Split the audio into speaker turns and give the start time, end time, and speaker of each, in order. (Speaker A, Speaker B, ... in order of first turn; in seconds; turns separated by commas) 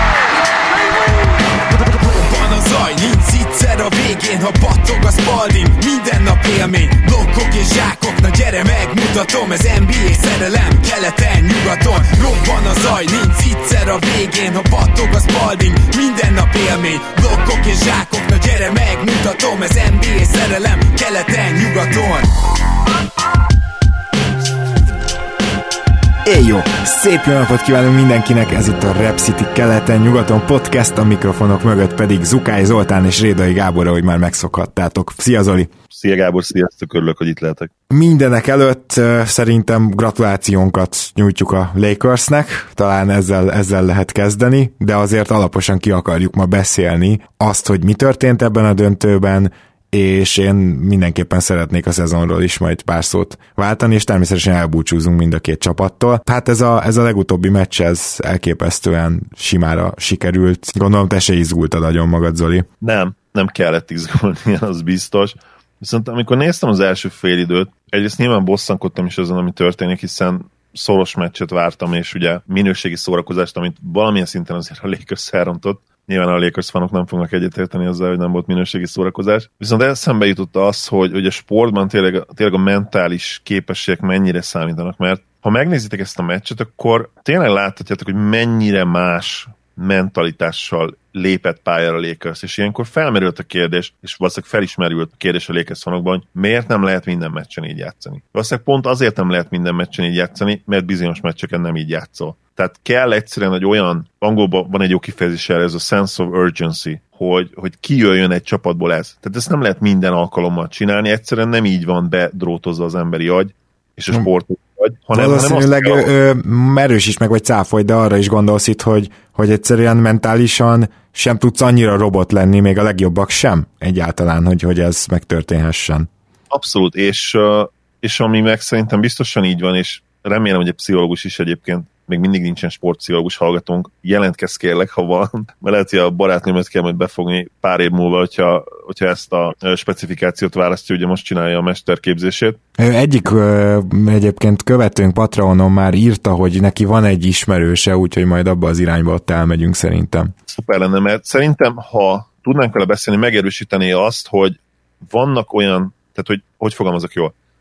Speaker A: 0.7-22.3, Speaker B: 26.2-35.7, Speaker C: 35.9-37.7, Speaker B: 37.9-62.7, Speaker C: 62.8-116.1, Speaker B: 115.1-126.1, Speaker C: 126.5-142.6, Speaker B: 142.8-150.3, Speaker C: 150.5-157.3